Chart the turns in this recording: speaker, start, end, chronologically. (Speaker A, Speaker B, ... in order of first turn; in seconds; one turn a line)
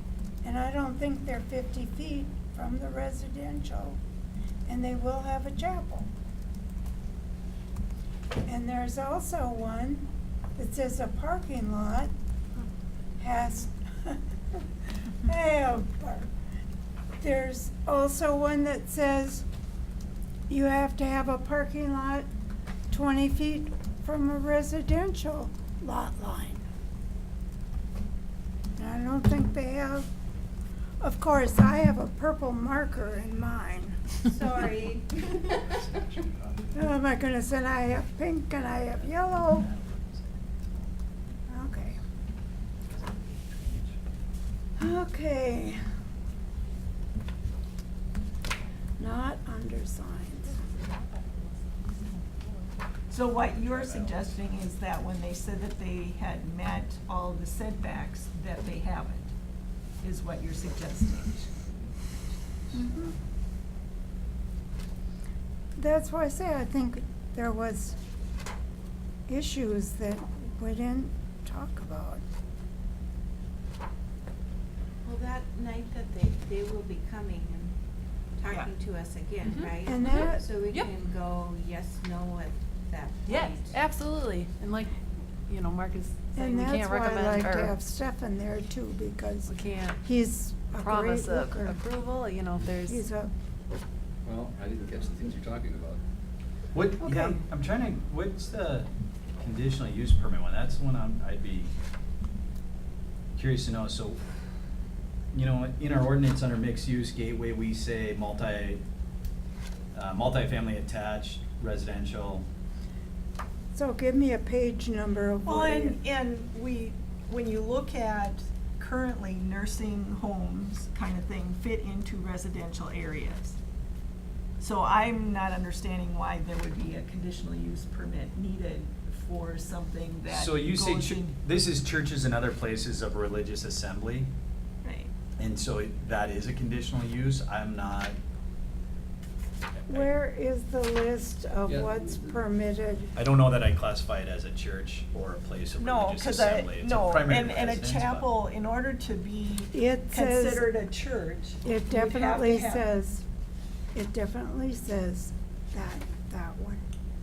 Speaker A: 0.4-4.0
Speaker A: 4.7-6.1
Speaker A: 8.5-12.1
Speaker A: 13.2-14.6
Speaker A: 15.2-16.3
Speaker A: 17.2-19.4
Speaker A: 20.5-22.3
Speaker A: 22.9-26.6
Speaker A: 28.8-30.1
Speaker A: 31.0-34.1
Speaker B: 34.2-35.7
Speaker C: 35.3-36.8
Speaker A: 36.8-39.7
Speaker C: 39.0-40.9
Speaker A: 41.5-42.0
Speaker C: 42.9-44.0
Speaker A: 44.8-45.8
Speaker A: 49.0-50.6
Speaker D: 50.4-52.8
Speaker E: 53.1-59.3
Speaker C: 53.4-54.4
Speaker E: 60.0-61.4
Speaker A: 62.7-63.1
Speaker A: 65.8-68.0
Speaker A: 69.3-72.2
Speaker B: 75.0-77.7
Speaker B: 78.4-83.8
Speaker D: 79.5-80.9
Speaker A: 79.8-80.4
Speaker D: 83.3-84.9
Speaker D: 85.5-87.8
Speaker A: 86.3-91.8
Speaker D: 89.5-90.0
Speaker D: 90.8-93.0
Speaker A: 92.8-93.3
Speaker F: 94.2-96.0
Speaker C: 96.7-98.9
Speaker A: 97.0-97.4
Speaker C: 99.4-101.7
Speaker C: 103.4-104.2
Speaker C: 105.3-108.8
Speaker C: 109.9-112.5
Speaker A: 113.7-116.0
Speaker E: 115.4-123.6
Speaker E: 124.6-131.3
Speaker C: 130.3-134.3
Speaker E: 134.8-135.1
Speaker C: 135.4-138.2
Speaker C: 139.8-140.1
Speaker A: 139.9-143.2
Speaker F: 141.7-142.3
Speaker C: 143.2-148.3
Speaker E: 145.8-152.8
Speaker A: 149.7-150.7
Speaker A: 151.6-153.2
Speaker A: 153.9-156.8